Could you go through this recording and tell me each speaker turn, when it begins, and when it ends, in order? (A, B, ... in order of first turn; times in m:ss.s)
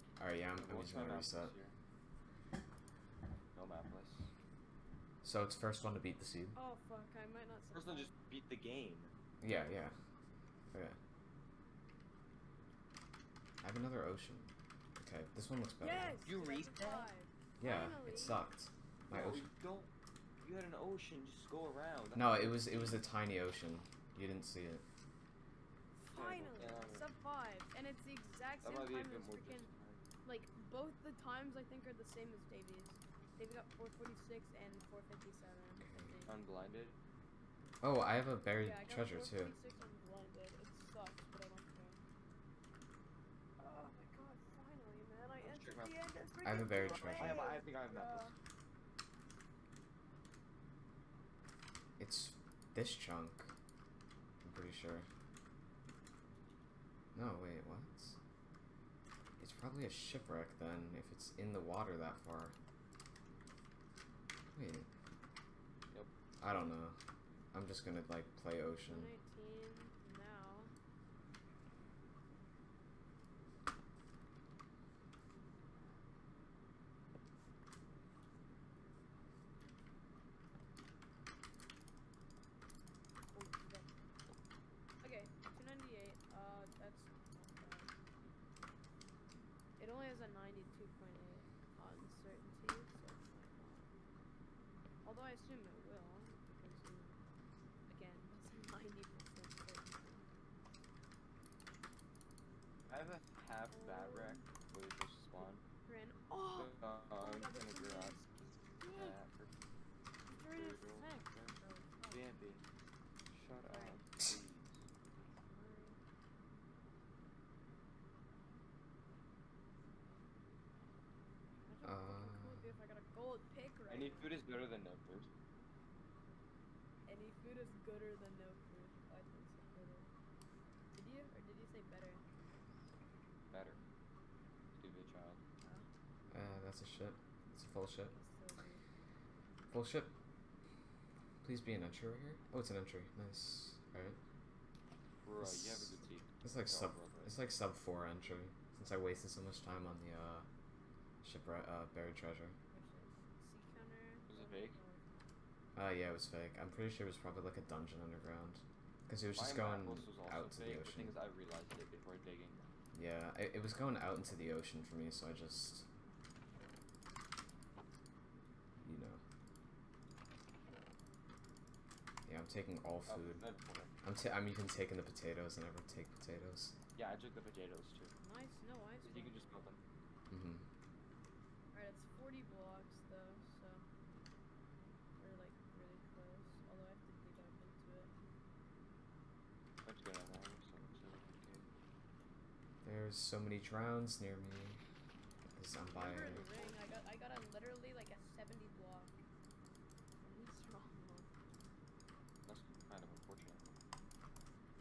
0:00.2-0:01.5 A
0:00.6-0:01.7 B
0:03.5-0:04.3 B
0:05.2-0:06.5 A
0:06.5-0:08.1 C
0:07.7-0:09.1 B
0:09.4-0:09.9 A
0:10.7-0:11.0 A
0:13.6-0:16.2 A
0:15.8-0:18.4 C
0:16.2-0:17.1 B
0:17.6-0:19.4 A
0:19.1-0:22.8 B
0:22.1-0:24.8 A
0:26.0-0:29.7 C
0:26.1-0:27.0 B
0:28.6-0:30.0 B
0:30.2-0:36.4 C
0:35.8-0:36.1 A
0:36.3-0:37.0 B
0:37.8-0:39.5 A
0:38.5-0:42.0 C
0:43.6-0:48.4 C
0:45.4-0:46.0 B
0:46.4-0:47.5 A
0:46.7-0:48.3 B
0:52.0-0:53.5 A
0:54.4-0:55.1 A
0:57.1-0:58.1 A
0:59.4-1:02.5 A
1:04.5-1:04.9 A
1:06.4-1:07.0 A
1:07.5-1:09.1 A
1:08.8-1:10.7 C
1:23.3-1:23.9 C
1:25.0-1:27.9 C
1:29.8-1:33.9 C
1:35.0-1:37.2 C
1:37.9-1:40.3 C
1:42.9-1:45.6 B
1:43.7-1:44.4 C
1:45.8-1:48.3 C
1:46.6-1:49.5 B
1:48.8-1:49.1 C
1:50.2-1:52.3 C
1:50.5-1:51.5 B
1:52.1-1:52.6 B
1:53.3-1:54.8 B
1:53.6-1:54.0 C
1:55.2-1:56.0 C
2:01.6-2:04.4 C
2:01.8-2:02.6 A
2:03.9-2:05.3 B
2:07.1-2:10.1 C
2:10.9-2:12.2 C
2:13.5-2:13.8 B
2:14.8-2:15.4 B
2:16.3-2:18.1 A
2:18.1-2:18.8 C
2:19.7-2:20.1 A
2:21.4-2:24.2 A
2:25.2-2:27.4 B
2:25.4-2:30.4 A
2:31.2-2:32.6 A
2:32.7-2:35.0 C
2:34.3-2:34.8 B
2:35.8-2:41.2 A
2:39.3-2:42.6 B
2:42.9-2:45.8 A
2:48.8-2:49.2 A
2:52.2-2:53.4 A
2:53.1-2:53.9 B
2:54.0-2:56.7 A
2:57.0-2:58.1 B
2:58.2-2:59.6 C
2:59.0-2:59.8 B
3:00.3-3:00.6 A
3:01.7-3:03.8 C
3:05.2-3:08.1 C
3:09.8-3:11.7 B
3:12.8-3:14.8 A
3:15.5-3:16.5 A
3:15.9-3:19.2 C
3:16.1-3:16.9 B
3:20.2-3:21.3 C
3:22.4-3:23.7 B